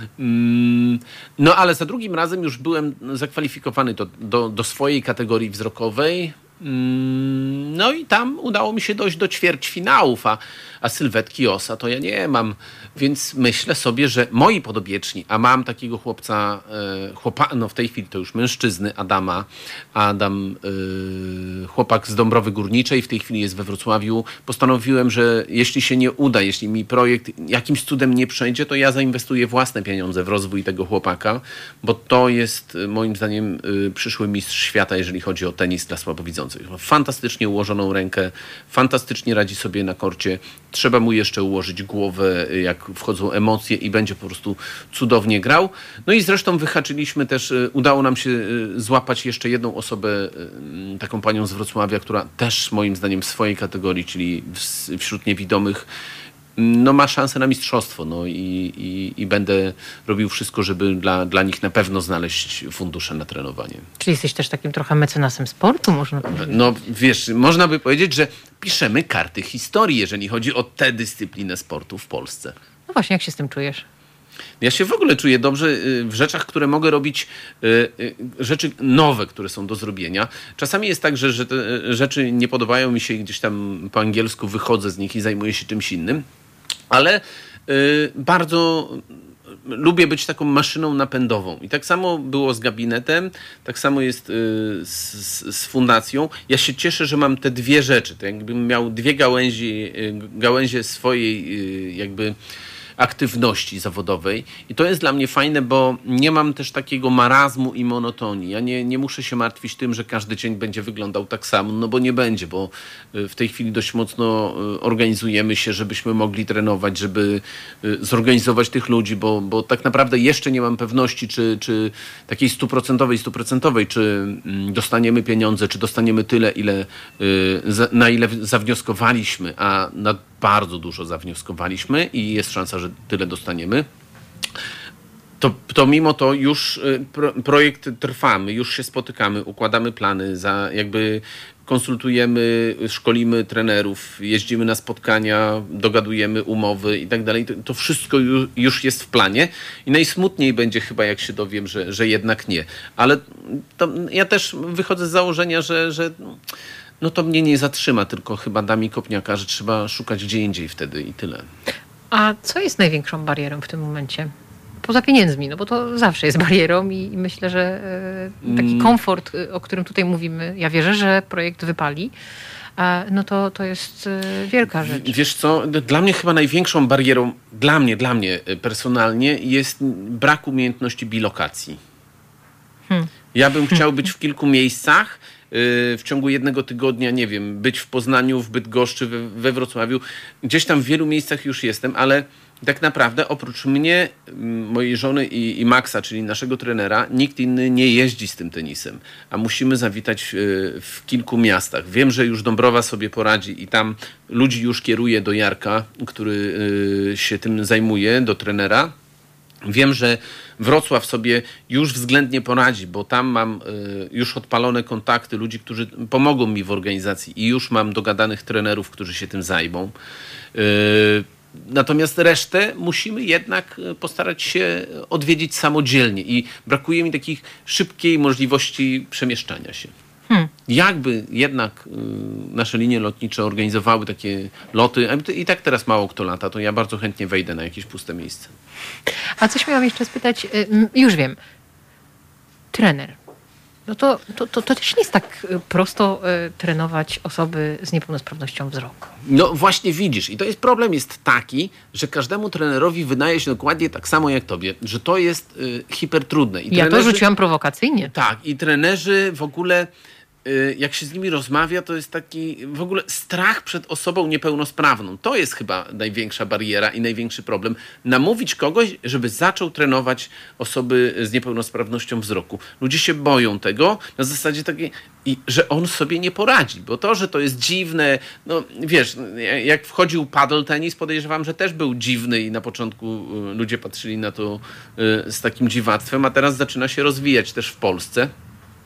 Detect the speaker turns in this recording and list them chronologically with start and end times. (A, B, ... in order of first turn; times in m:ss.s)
0:00.2-0:55.9 A
0:56.6-1:03.9 A
1:04.0-1:06.6 B
1:06.3-1:12.6 A
1:12.9-1:13.8 B
1:14.6-1:26.2 A
1:26.9-1:42.4 A
1:43.0-2:13.9 A
2:15.4-2:36.4 A
2:37.0-2:41.5 A
2:42.1-2:44.3 B
2:44.8-2:52.1 B
2:48.4-2:49.0 A
2:52.8-2:55.2 B
2:54.8-3:01.8 A
3:03.3-3:28.9 A
3:29.6-3:39.9 A
3:40.5-3:49.9 A
3:50.7-3:58.5 A
3:59.4-4:01.4 B
4:02.7-4:03.2 B
4:03.9-4:09.1 B
4:09.2-4:17.2 A
4:16.7-4:18.1 B
4:18.0-4:19.9 A
4:20.4-4:48.3 A